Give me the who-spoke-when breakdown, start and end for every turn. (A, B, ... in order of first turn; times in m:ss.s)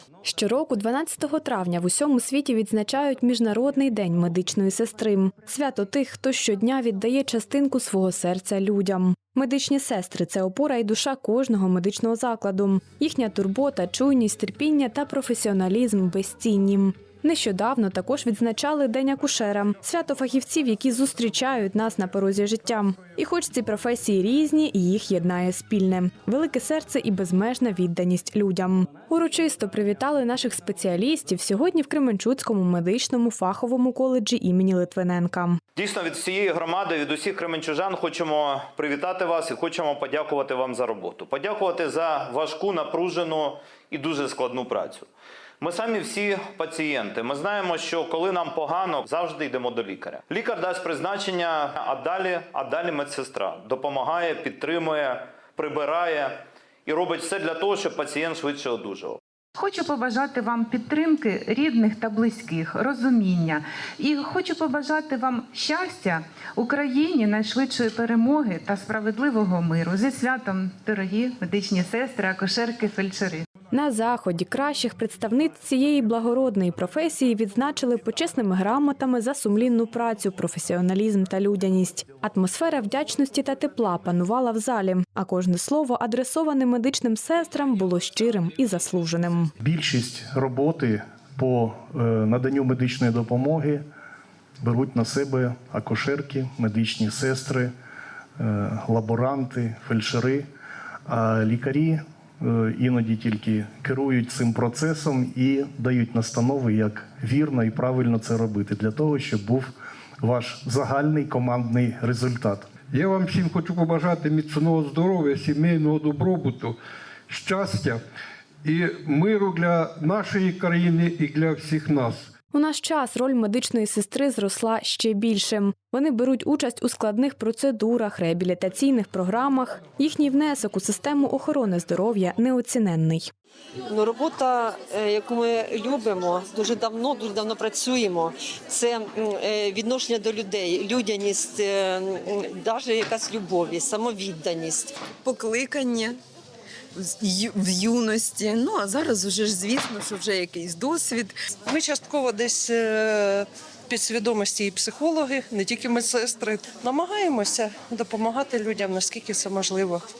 0:00.2-0:35.6 A
0:35.8-0:45.1 B
0:45.6-0:59.2 B
0:59.6-1:13.5 C
1:13.7-1:29.5 A
1:29.6-1:33.8 D
1:34.6-1:37.7 D
1:38.4-1:40.5 D
1:41.1-1:52.7 D
1:52.9-1:58.0 E
1:58.6-2:02.3 E
2:02.5-2:13.3 A
2:13.9-2:24.9 F
2:25.2-2:26.2 G
2:27.0-2:31.3 G
2:31.7-2:40.0 H